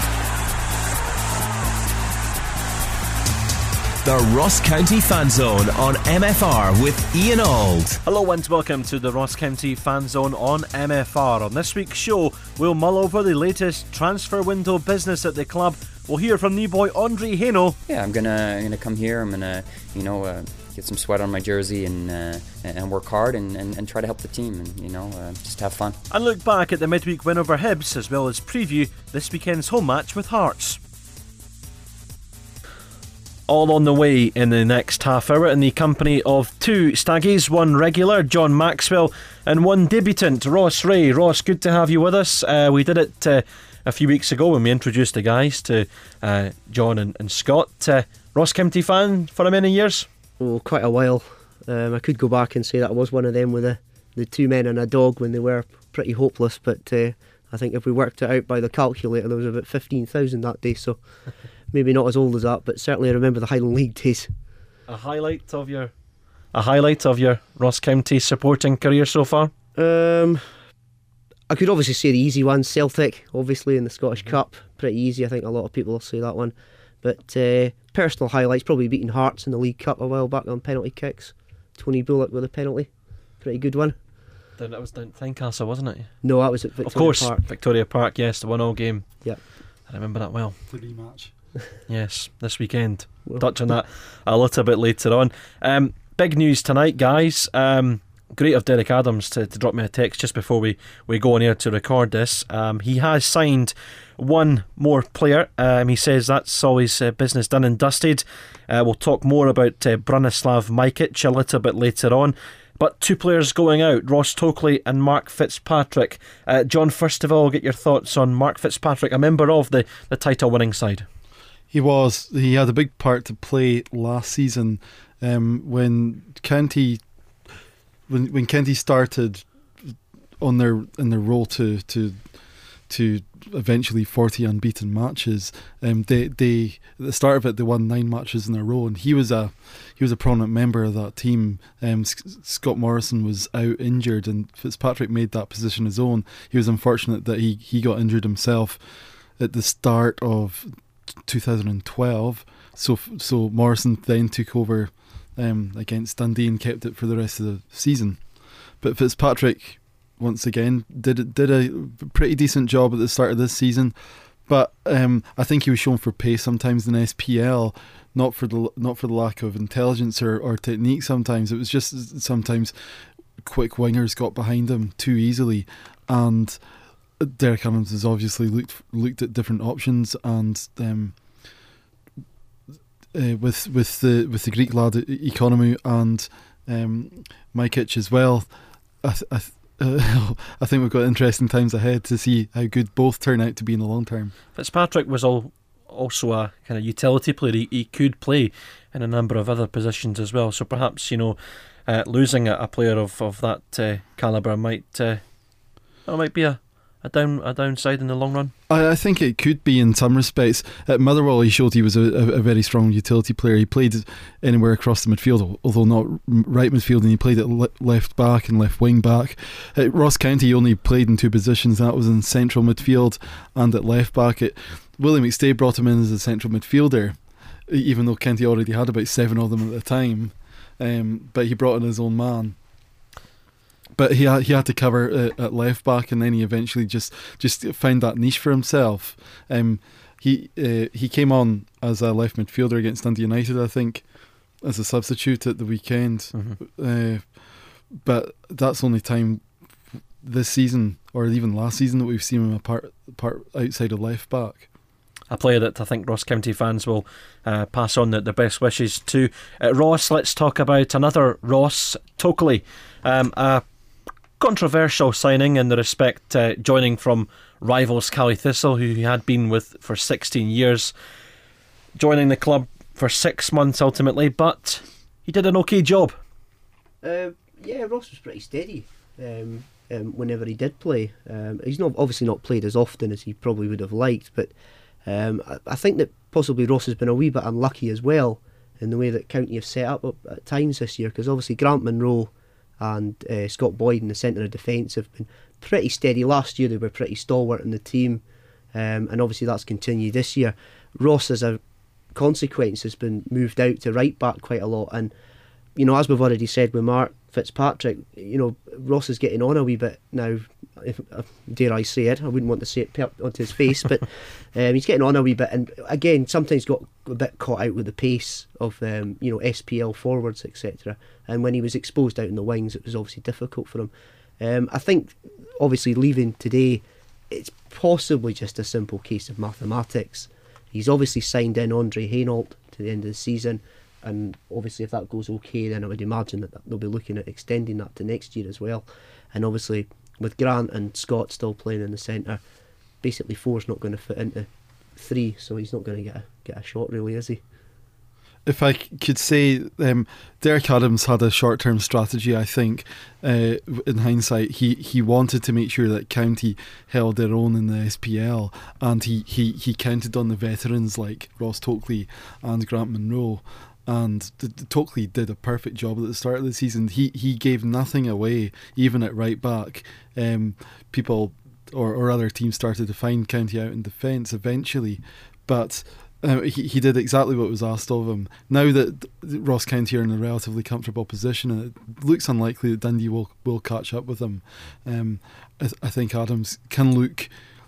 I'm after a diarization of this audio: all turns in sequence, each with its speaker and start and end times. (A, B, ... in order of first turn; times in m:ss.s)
0:04.0-0:08.0 A
0:08.0-0:17.8 B
0:17.9-0:26.0 C
0:26.1-0:30.8 B
0:33.5-0:50.1 B
0:50.4-1:01.0 D
1:01.7-1:04.3 D
1:04.9-1:05.9 B
1:06.5-1:09.5 B
1:09.7-1:10.4 D
1:11.5-1:22.9 D
1:23.4-1:24.0 D
1:24.6-1:26.1 B
1:26.2-1:27.4 D
1:26.8-1:29.2 B
1:29.9-1:30.6 B
1:30.7-1:31.3 E
1:31.9-2:01.0 B
2:01.7-2:07.0 E
2:08.1-2:12.2 E
2:12.9-2:28.8 E
2:29.4-2:30.7 E
2:31.2-2:38.2 E
2:38.8-2:43.9 E
2:44.5-2:52.7 E
2:53.4-2:56.6 E
2:57.2-3:01.2 E
3:03.1-3:08.5 E
3:09.0-3:14.3 E
3:14.5-3:25.2 B
3:26.0-3:28.5 B
3:28.7-3:47.2 E
3:47.7-3:52.6 E
3:54.0-4:04.0 E
4:04.6-4:07.3 E
4:07.9-4:09.4 E
4:10.2-4:14.7 E
4:15.3-4:23.6 B
4:24.4-4:30.9 B
4:32.0-4:36.1 B
4:37.0-4:44.5 D
4:45.0-4:58.2 D
4:58.7-5:01.6 D
5:02.1-5:05.1 D
5:05.8-5:42.4 D
5:43.0-5:47.4 D
5:48.4-6:27.3 E